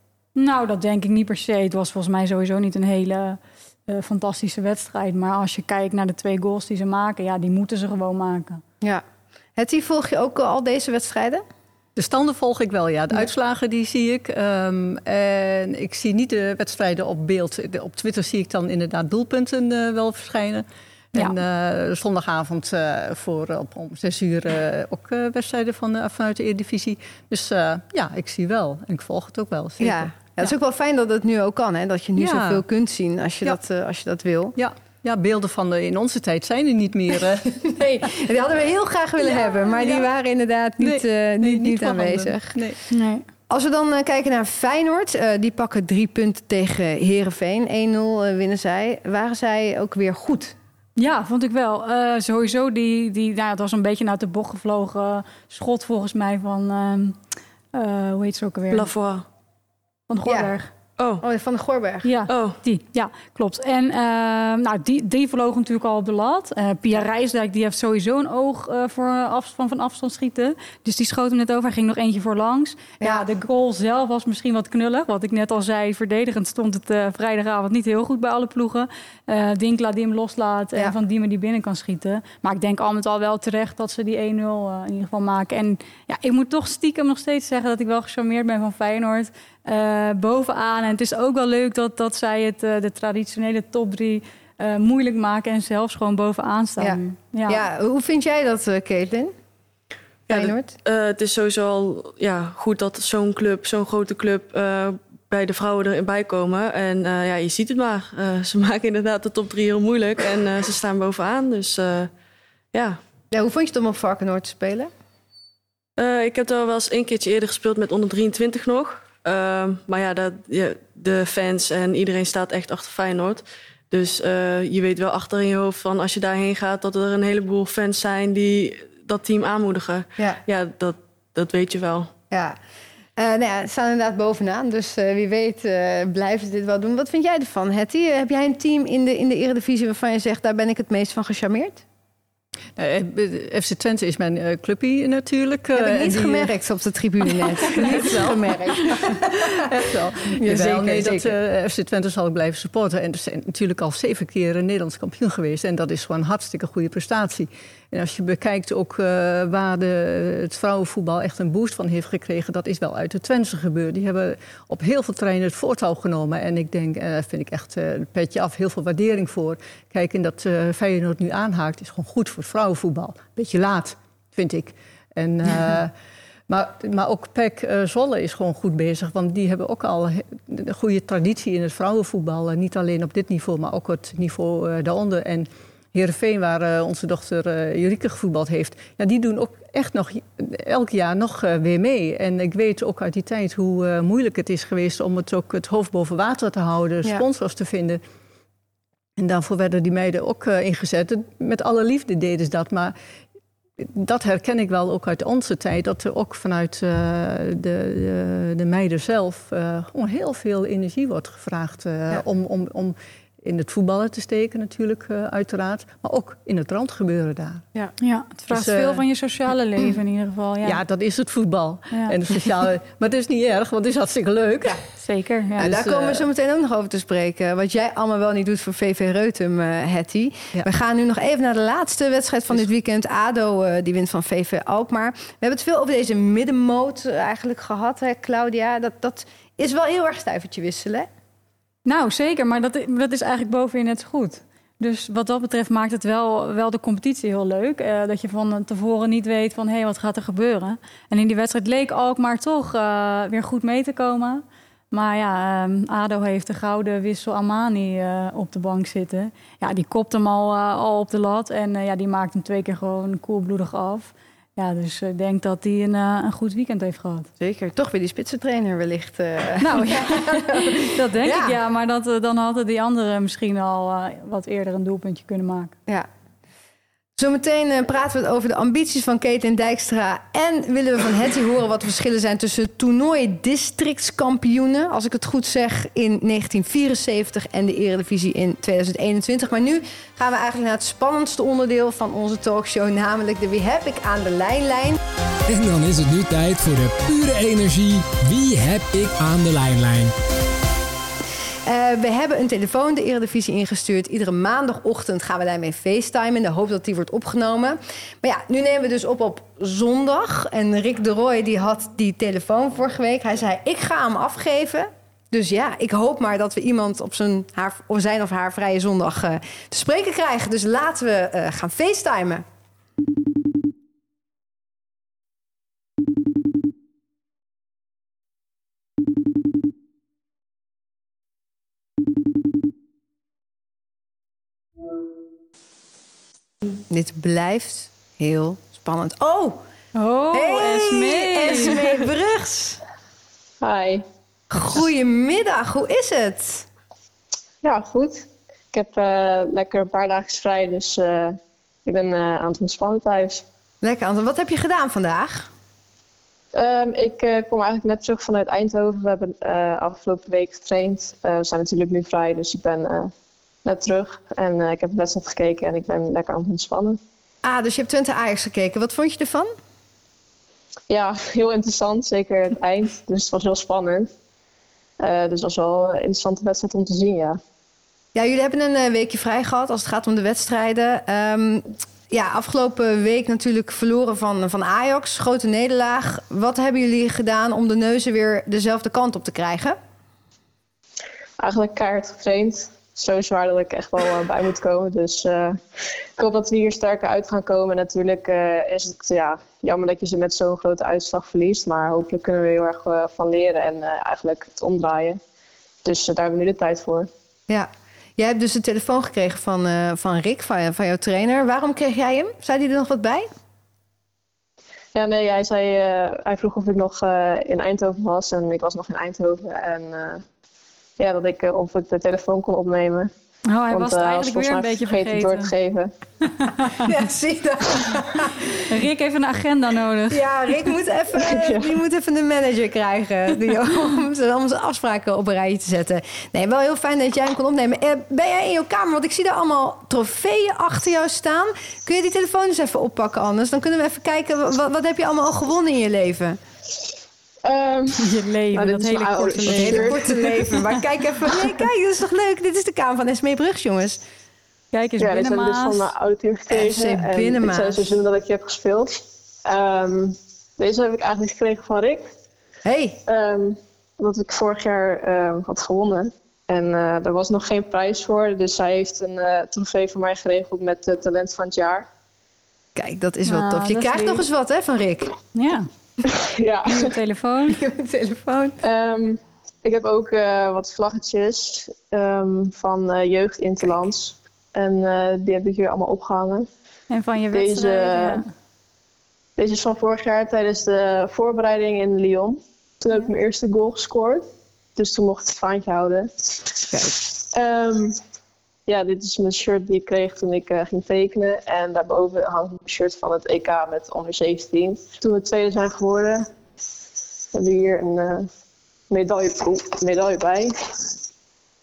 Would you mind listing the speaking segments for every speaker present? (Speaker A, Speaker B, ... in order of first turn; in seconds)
Speaker A: 0.4-8.6, 42.9-43.2, 51.0-57.2, 57.7-58.9, 60.1-60.7, 62.0-97.6, 218.0-220.8, 221.9-222.2, 225.0-225.7, 241.8-267.3, 269.6-275.7, 339.9-341.8, 423.5-425.5, 426.2-426.9, 428.5-430.2, 448.0-450.2, 454.7-455.9, 473.3-474.3, 475.4-475.7, 476.7-477.6, 486.9-488.3
Speaker B: 9.6-11.4, 29.8-34.5, 37.7-42.6, 43.5-50.5, 60.3-60.5, 61.2-62.1, 96.8-99.3, 100.3-100.7, 113.3-114.9, 132.3-132.6, 133.2-141.8, 145.8-149.6, 150.3-151.3, 225.6-241.1, 267.4-271.6, 277.2-295.0, 301.7-322.4, 336.9-339.6, 340.3-342.8, 344.5-346.6, 353.8-355.5, 367.4-369.5, 378.1-389.8, 407.5-413.3, 426.8-428.6, 430.1-446.4, 449.5-454.0, 456.5-457.9, 462.6-463.0, 472.8-475.1, 477.5-478.6
Speaker C: 12.0-30.1, 32.2-32.6, 34.6-38.1, 39.3-40.1, 40.8-42.8, 142.8-146.5, 147.2-175.9, 176.5-198.0, 199.2-202.9, 203.8-217.7, 218.5-219.0, 220.6-224.8, 225.6-226.3
Speaker D: 58.7-59.2, 61.0-61.2, 62.3-62.6, 100.3-112.1, 112.7-113.0, 116.0-132.1
Speaker E: 295.5-300.1
Speaker F: 343.6-344.0, 347.6-353.4, 356.5-363.1, 363.7-367.0, 370.9-374.1, 375.0-377.4, 391.4-395.6, 396.2-405.2, 405.9-407.1, 414.9-420.2, 421.0-423.1, 423.7-425.9, 431.2-431.8, 447.4-450.6, 455.0-462.1, 463.1-471.9, 476.0-476.9, 478.6-486.5, 487.3-488.2, 489.4-494.2, 494.8-498.0, 498.7-506.3, 507.3-508.3, 508.9-510.9